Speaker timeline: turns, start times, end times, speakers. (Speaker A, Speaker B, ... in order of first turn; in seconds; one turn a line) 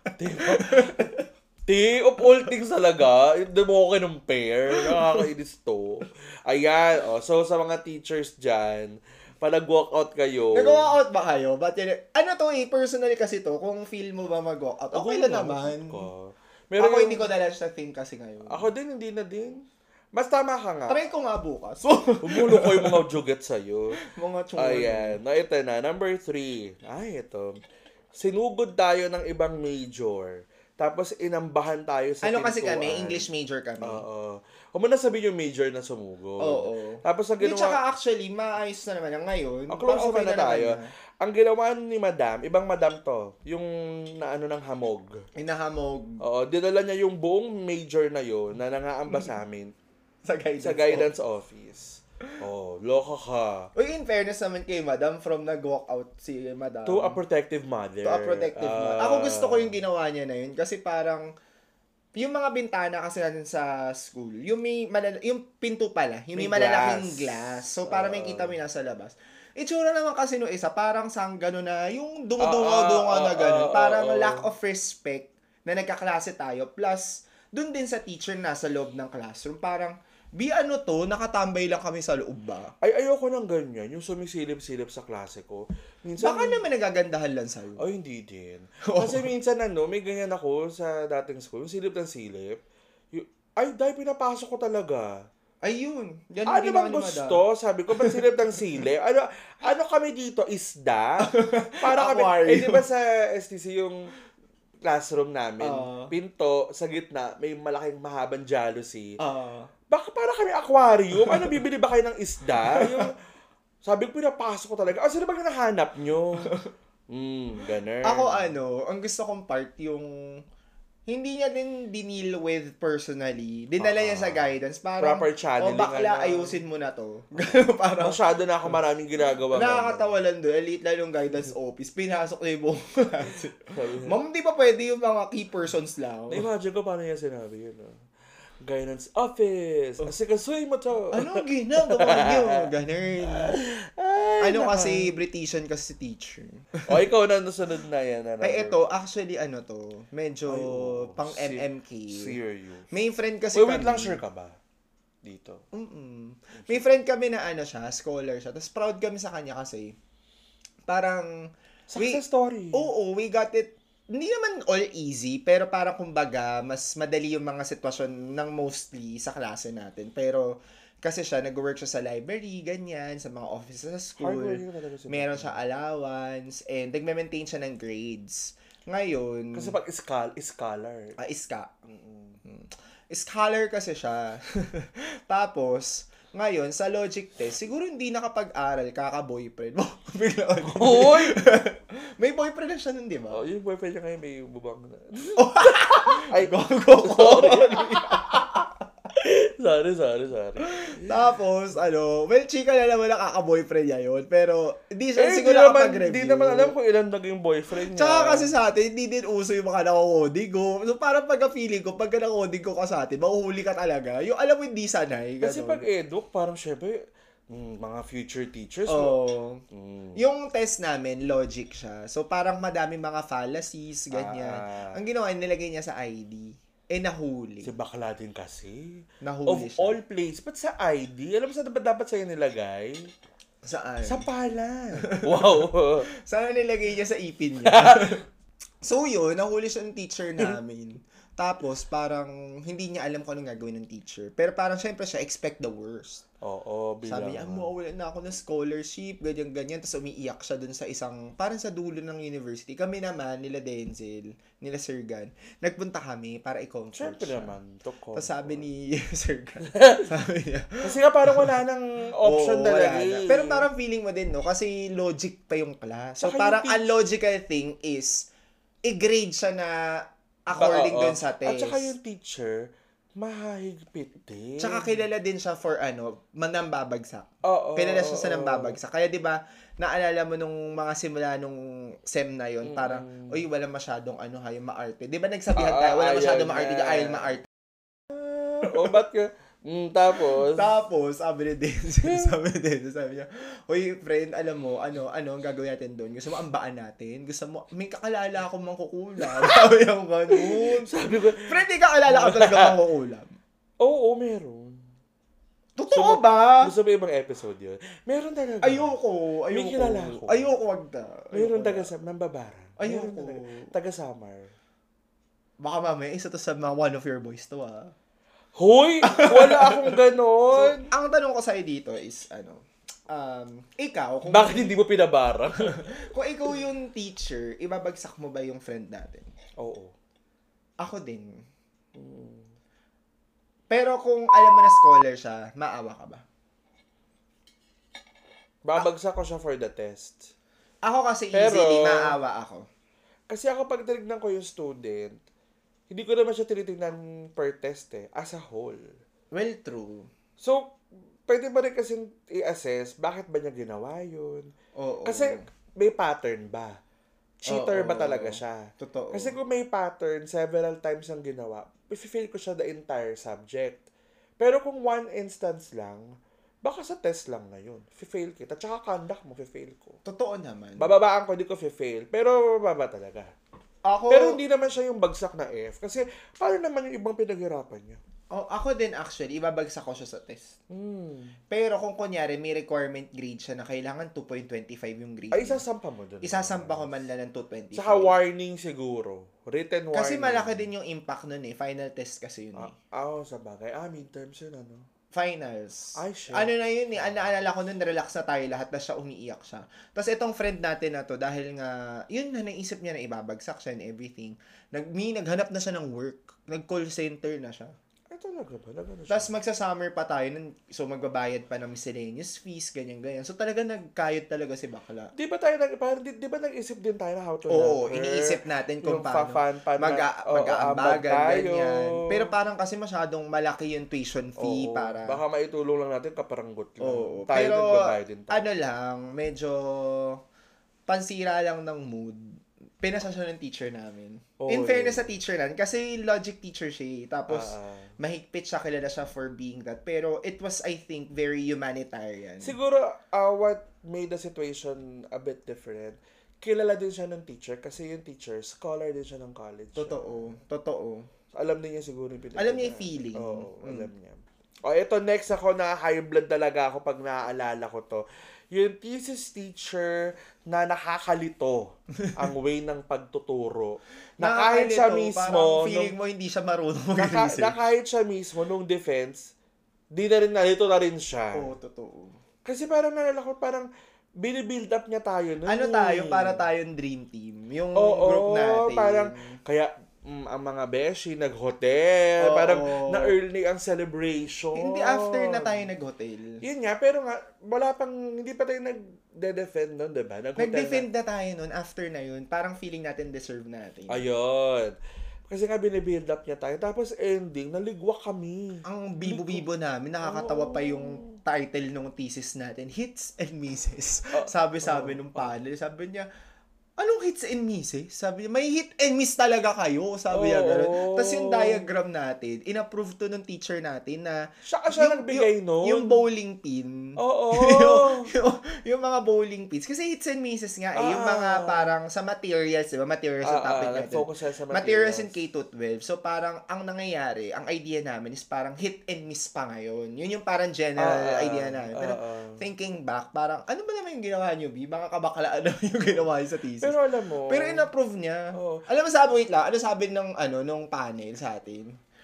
Speaker A: 0.2-10.9
Speaker B: 0.4-1.2
Speaker B: 4.8-5.2
Speaker B: 10.5-16.1
Speaker A: 14.9-17.3
Speaker B: 16.8-18.7
Speaker A: 18.5-21.0
Speaker B: 20.9-23.0
Speaker A: 22.2-24.0
Speaker B: 24.0-25.2
Speaker A: 24.6-27.6
Speaker A: 28.1-33.3
Speaker B: 32.2-34.0
Speaker A: 33.8-37.8
Speaker B: 36.4-40.9
Speaker A: 39.7-45.2
Speaker B: 45.4-46.2
Speaker A: 46.2-49.7
Speaker B: 50.2-51.1
Speaker A: 50.6-53.7
Speaker B: 53.8-57.2
Speaker A: 56.9-59.8
Speaker B: 58.0-61.3
Speaker B: 62.1-82.7
Speaker A: 66.3-68.5
Speaker A: 72.4-74.5
Speaker A: 82.8-86.6
Speaker B: 86.2-87.8
Speaker A: 87.8-92.6
Speaker B: 88.8-89.3
Speaker A: 93.1-95.2
Speaker B: 95.6-97.4
Speaker A: 96.5-104.1
Speaker B: 98.0-98.2
Speaker B: 101.2-102.8
Speaker A: 104.8-109.2
Speaker B: 105.6-106.1
Speaker B: 109.2-109.7
Speaker A: 109.9-113.1
Speaker B: 111.2-111.6
Speaker B: 112.7-113.1
Speaker A: 113.8-116.5
Speaker A: 117.1-118.5
Speaker B: 118.0-120.1
Speaker B: 121.1-128.2
Speaker A: 123.8-126.6
Speaker A: 127.4-130.1
Speaker B: 129.5-136.4
Speaker A: 133.7-134.2
Speaker A: 136.3-138.0
Speaker A: 138.6-142.7
Speaker B: 141.1-143.6
Speaker A: 143.3-145.1
Speaker B: 144.4-146.8
Speaker A: 146.8-148.8
Speaker B: 148.4-152.3
Speaker A: 150.5-152.9
Speaker B: 152.9-154.2
Speaker A: 153.5-154.6
Speaker A: 155.2-155.6
Speaker B: 155.7-159.9
Speaker A: 156.5-156.8
Speaker B: 160.9-179.8
Speaker A: 161.9-162.9
Speaker A: 174.2-175.6
Speaker A: 179.5-181.2
Speaker B: 181.2-181.8
Speaker A: 181.9-182.4
Speaker B: 182.4-193.4
Speaker A: 190.6-191.4
Speaker A: 193.3-198.5
Speaker B: 195.3-198.7
Speaker A: 199.1-201.2
Speaker B: 200.8-206.7
Speaker A: 205.2-208.5
Speaker B: 207.9-215.8
Speaker A: 215.4-219.2
Speaker B: 218.9-219.6
Speaker A: 219.7-220.2
Speaker B: 220.2-227.7
Speaker A: 224.1-224.9
Speaker A: 227.6-233.0
Speaker B: 229.2-230.0
Speaker B: 233.6-234.3
Speaker A: 234.0-236.1
Speaker B: 235.0-235.6
Speaker B: 236.2-238.2
Speaker A: 237.6-238.1
Speaker B: 238.8-246.2
Speaker A: 246.4-247.7
Speaker B: 247.0-257.5
Speaker A: 256.9-258.6
Speaker B: 258.1-261.6
Speaker A: 259.7-260.1
Speaker A: 260.8-263.6
Speaker B: 262.2-268.3
Speaker A: 266.2-266.9
Speaker B: 268.8-271.9
Speaker A: 270.5-274.9
Speaker B: 274.6-287.5
Speaker A: 277.4-278.8
Speaker A: 282.6-283.4
Speaker A: 285.5-287.4
Speaker A: 288.3-290.7
Speaker B: 288.6-288.9
Speaker B: 290.2-303.3
Speaker A: 299.2-299.6
Speaker A: 300.3-302.8
Speaker A: 303.8-304.8
Speaker B: 305.8-306.7
Speaker A: 305.9-308.9
Speaker B: 308.6-311.9
Speaker A: 309.5-310.5
Speaker A: 311.3-314.5
Speaker B: 312.8-313.7
Speaker B: 315.6-317.9
Speaker A: 318.5-320.9
Speaker B: 319.0-319.9
Speaker B: 320.5-324.7
Speaker A: 324.3-325.9
Speaker B: 325.6-329.3
Speaker A: 329.6-329.9
Speaker B: 330.8-331.4
Speaker A: 331.9-332.5
Speaker B: 333.7-336.2
Speaker A: 338.6-340.3
Speaker B: 340.8-342.7
Speaker A: 341.3-342.1
Speaker A: 343.3-345.2
Speaker A: 345.9-348.9
Speaker B: 349.3-350.1
Speaker A: 350.4-354.5
Speaker B: 354.7-355.4
Speaker A: 355.1-356.8
Speaker A: 357.4-363.9
Speaker B: 357.5-359.4
Speaker A: 364.4-370.0
Speaker B: 370.0-370.9
Speaker A: 370.8-373.3
Speaker B: 373.8-374.4
Speaker A: 374.1-378.0
Speaker B: 378.3-380.6
Speaker A: 380.7-381.4
Speaker B: 381.5-385.6
Speaker A: 385.3-387.0
Speaker B: 386.2-388.1
Speaker A: 387.7-390.6
Speaker B: 389.9-392.7
Speaker A: 392.6-394.9
Speaker B: 395.1-407.7
Speaker A: 395.9-396.5
Speaker A: 408.1-409.3
Speaker B: 409.1-415.1
Speaker A: 415.1-422.3
Speaker B: 417.5-425.2
Speaker A: 424.4-428.5
Speaker B: 426.8-430.2
Speaker B: 430.9-442.6
Speaker A: 434.4-435.1
Speaker A: 437.3-437.9
Speaker A: 442.4-450.3
Speaker B: 449.8-451.1
Speaker A: 451.3-465.9
Speaker B: 452.4-453.9
Speaker B: 464.2-467.6
Speaker A: 467.0-469.3
Speaker A: 469.9-471.5
Speaker B: 471.3-472.2
Speaker A: 472.4-473.7
Speaker A: 474.2-476.4
Speaker B: 475.5-479.4
Speaker A: 477.8-485.6
Speaker B: 482.2-483.1
Speaker B: 484.5-486.4
Speaker A: 486.4-490.9
Speaker B: 490.4-494.0
Speaker A: 493.9-494.7
Speaker A: 495.3-499.4
Speaker B: 498.6-506.1
Speaker A: 500.0-501.2
Speaker A: 504.1-505.3
Speaker B: 506.8-536.8
Speaker A: 510.1-511.6
Speaker A: 514.5-516.0
Speaker A: 517.0-518.1
Speaker A: 520.8-521.7
Speaker A: 523.2-525.1
Speaker A: 530.8-532.4
Speaker A: 536.6-537.7
Speaker B: 537.3-541.8
Speaker A: 538.3-538.6